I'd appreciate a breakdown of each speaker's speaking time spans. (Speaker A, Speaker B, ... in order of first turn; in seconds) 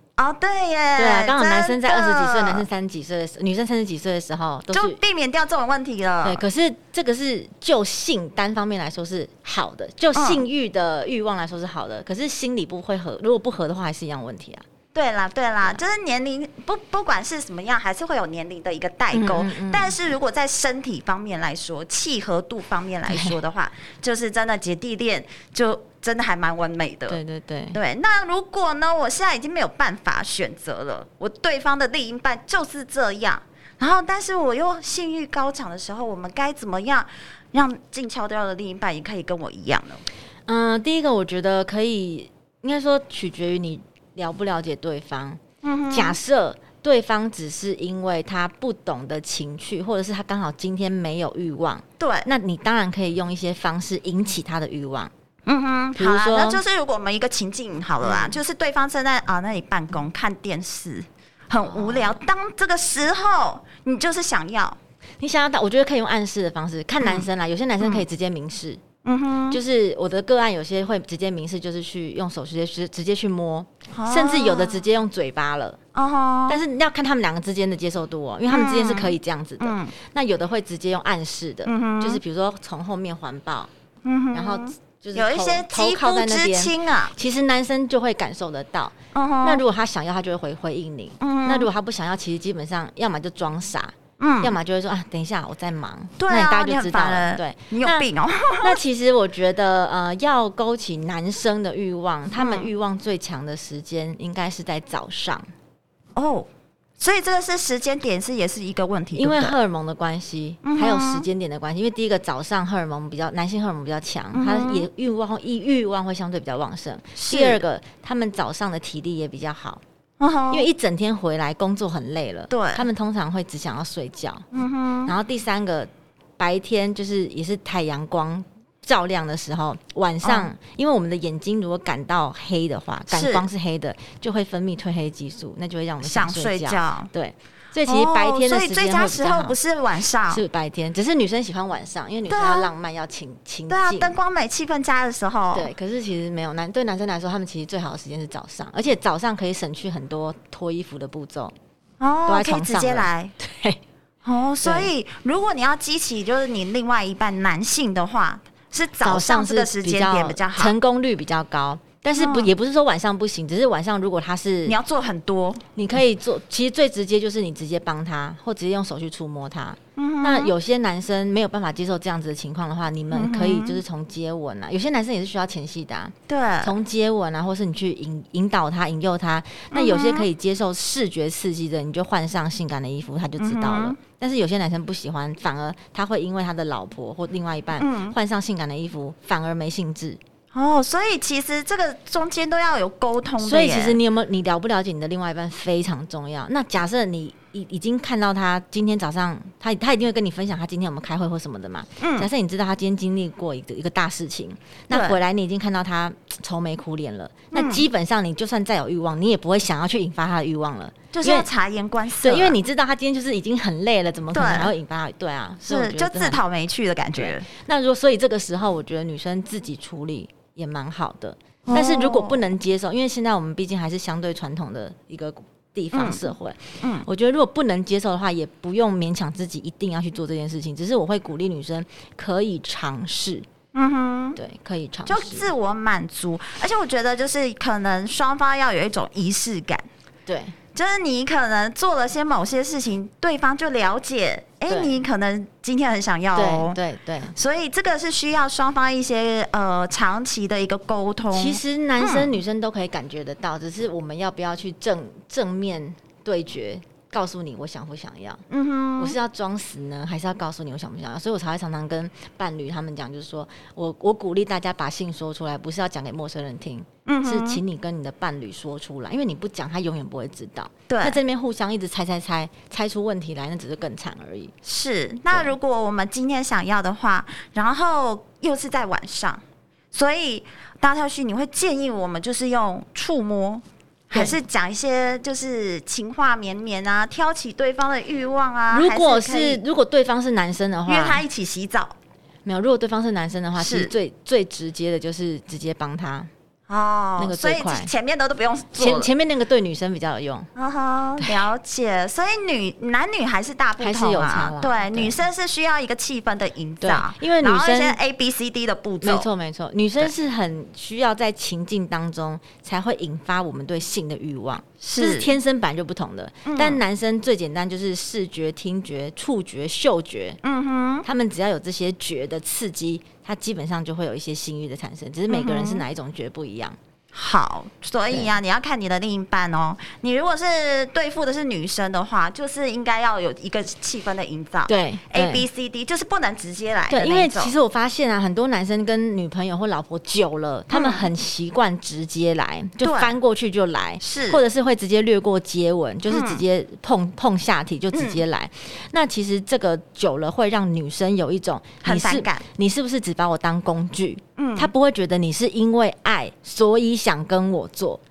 Speaker A: 0.2-2.6, 4.7-6.4, 10.1-10.4, 14.9-27.2, 27.7-40.0, 45.6-46.2, 52.0-52.3, 55.5-64.8, 67.0-67.2, 67.8-68.0, 69.0-69.6, 73.9-74.8, 75.9-76.6, 78.5-79.9, 81.6-82.2, 84.0-87.1, 89.1-89.6, 91.2-91.7, 94.2-94.5, 96.2-98.8, 102.3-102.7, 106.1-106.5, 107.0-109.6, 110.6-111.3, 114.3-114.9, 117.2-117.6, 120.2-120.7, 122.5-122.8, 124.5-125.1, 130.2-130.5, 133.1-133.5, 136.0-137.1, 137.8-140.4, 142.3-142.7, 143.7-145.7, 152.0-153.3, 154.2-160.7, 162.2-162.5, 164.7-165.6, 169.9-170.5, 173.1-173.8, 176.3-176.7, 179.7-180.3, 183.4-184.0, 187.8-188.2, 190.5-194.0, 202.0-202.3, 204.9-205.2, 207.5-207.8, 211.1-212.6, 214.3-214.7, 215.6-217.4, 221.7-222.4, 225.9-226.2, 226.8-227.1, 233.7-234.4, 235.1-239.9, 240.7-246.8, 247.3-252.3, 258.5-259.1, 267.1-267.6, 270.9-271.2, 274.6-289.6, 290.9-291.9, 293.6-293.9, 296.7-299.1, 300.6-309.3, 314.8-315.4, 316.4-316.8, 320.4-321.1, 325.3-325.8, 327.1-337.5, 340.7-341.1, 342.8-343.1, 344.0-344.4, 346.1-346.4, 347.9-348.2, 351.8-352.4, 354.4-354.7
Speaker B: 1.0-5.0, 6.2-14.6, 19.1-19.9, 23.1-23.3, 27.1-27.8, 40.5-55.1, 56.0-56.6, 58.0-58.4, 61.6-62.2, 65.2-68.8, 69.5-75.8, 76.5-83.7, 84.3-98.0, 98.6-105.5, 109.1-119.8, 120.5-124.5, 125.0-139.6, 140.3-144.1, 145.5-151.5, 152.3-153.8, 154.6-154.9, 159.0-164.8, 165.8-190.2, 193.4-211.5, 212.2-216.4, 217.2-233.4, 234.3-235.5, 240.3-240.6, 244.7-245.0, 246.3-247.3, 251.3-258.4, 259.0-274.5, 284.1-284.4, 288.7-291.2, 292.4-296.3, 297.2-297.9, 298.7-300.5, 303.8-305.2, 306.8-307.9, 309.0-320.4, 321.0-326.8, 334.7-335.4, 336.9-358.0